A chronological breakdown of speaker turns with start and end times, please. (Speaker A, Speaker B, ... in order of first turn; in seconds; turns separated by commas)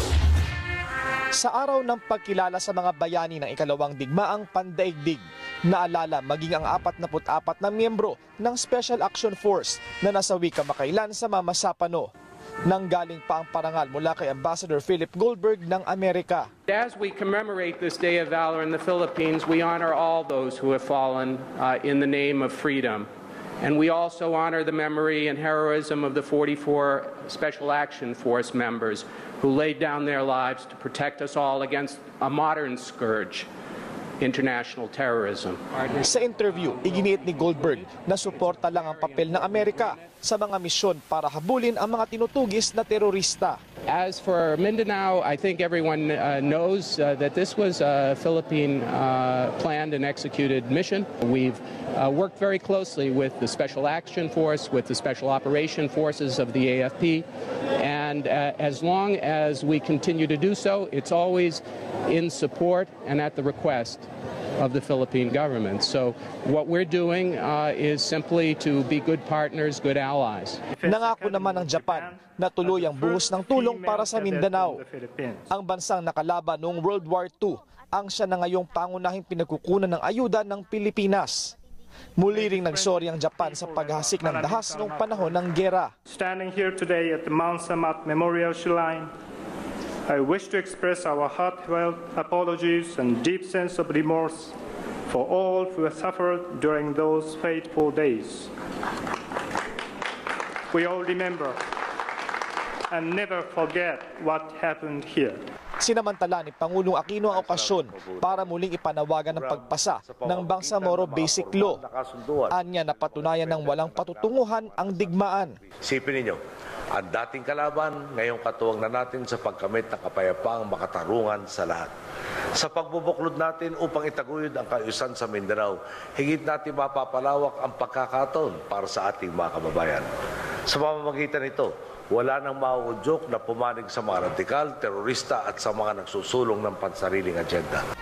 Speaker A: 1.4-12.1, Speaker A: 12.7-16.5, Speaker B: 16.7-23.1, Speaker B: 23.6-33.5, Speaker B: 34.2-40.1, Speaker A: 36.0-43.6, Speaker B: 43.9-57.2, Speaker B: 57.8-64.1, Speaker B: 64.6-70.6, Speaker C: 70.7-75.5, Speaker A: 70.8-74.8, Speaker A: 75.5-81.5, Speaker A: 82.2-85.9, Speaker C: 82.3-85.4, Speaker C: 86.1-89.1, Speaker C: 90.1-94.5, Speaker C: 95.1-98.5, Speaker C: 100.7-101.6, Speaker C: 102.9-105.4, Speaker A: 105.8-111.8, Speaker D: 107.3-108.5, Speaker D: 109.3-116.4, Speaker A: 112.5-115.6, Speaker D: 116.9-121.9, Speaker D: 122.5-130.1, Speaker D: 130.7-137.8